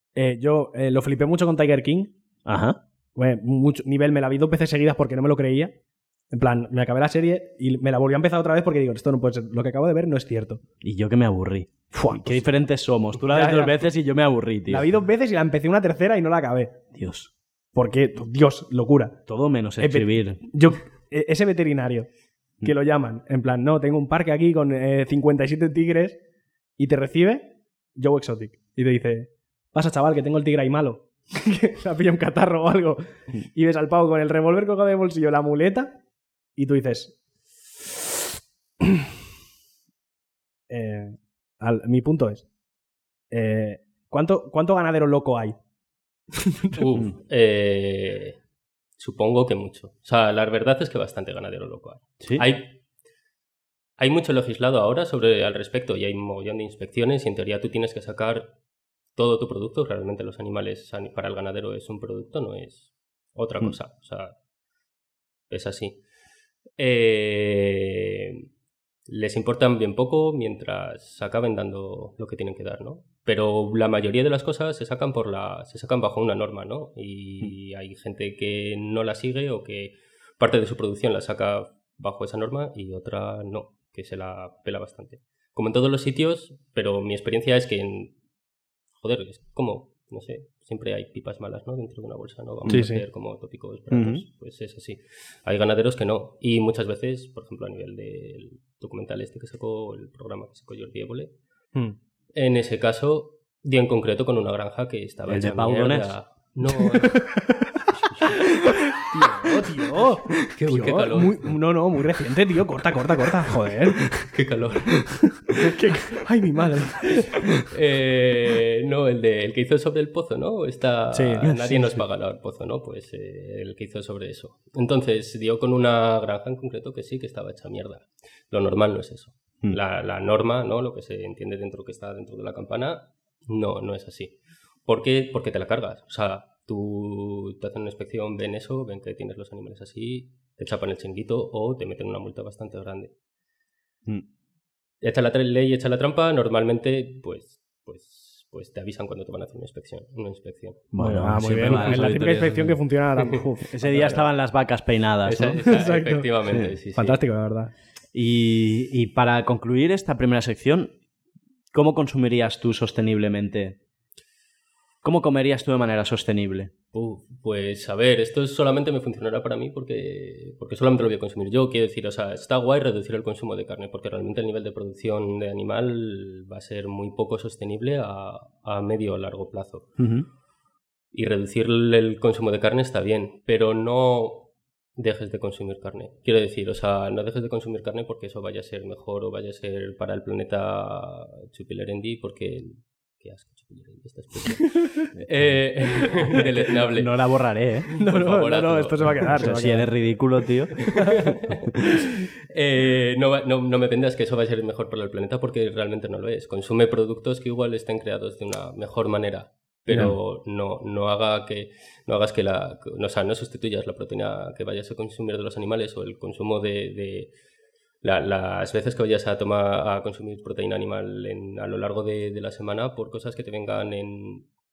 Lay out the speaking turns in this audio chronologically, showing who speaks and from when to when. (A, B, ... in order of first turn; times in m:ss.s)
0:00.2-0:02.1 A
0:02.4-0:02.8 B
0:03.2-0:05.7 A
0:06.3-0:10.6 A
0:10.8-0:14.9 B
0:11.9-0:12.5 A
0:13.2-0:13.9 A
0:14.7-0:16.8 A
0:16.9-0:17.3 B
0:17.7-0:19.2 A
0:19.3-0:20.4 B
0:19.8-0:22.1 A
0:22.6-0:26.2 A
0:26.8-0:36.0 A
0:36.6-0:37.2 A
0:40.7-0:42.4 A
0:43.3-0:45.6 A
0:46.4-0:46.8 A
0:46.7-0:48.4 C
0:49.0-0:52.7 C
0:52.2-0:52.4 B
0:54.0-0:58.5 C
0:59.1-1:04.3 C
1:05.5-1:06.0 C
1:06.8-1:08.4 C
1:09.1-1:28.1 C
1:29.0-1:41.3 C
1:32.6-1:32.9 B
1:32.7-1:33.0 A
1:33.9-1:34.2 B
1:42.3-1:47.2 C
1:45.3-1:46.1 B
1:47.0-1:47.8 A
1:48.0-1:48.3 C
1:48.5-1:54.3 A
1:50.5-1:51.5 C
1:54.3-1:55.1 C
1:55.4-1:57.6 A
1:57.7-2:23.1 C
2:01.1-2:01.6 A
2:01.4-2:02.0 B
2:25.0-2:30.8 C
2:30.9-2:32.8 B
2:31.0-2:34.2 A
2:31.7-2:32.1 C
2:33.7-2:35.7 B
2:35.2-2:37.2 C
2:35.6-2:36.3 A
2:36.5-2:36.7 B
2:36.9-2:37.7 A
2:38.1-2:40.9 B
2:41.7-2:43.8 B
2:45.0-2:46.7 B
2:46.9-3:00.0 C
3:00.0-3:00.3 B
3:01.1-3:17.1 C
3:15.2-3:15.6 B
3:16.3-3:17.9 B
3:17.9-3:19.5 C
3:18.0-3:20.2 A
3:19.4-3:21.0 B
3:20.8-3:21.6 C
3:22.5-3:37.3 C
3:29.9-3:30.2 B
3:38.0-3:44.4 C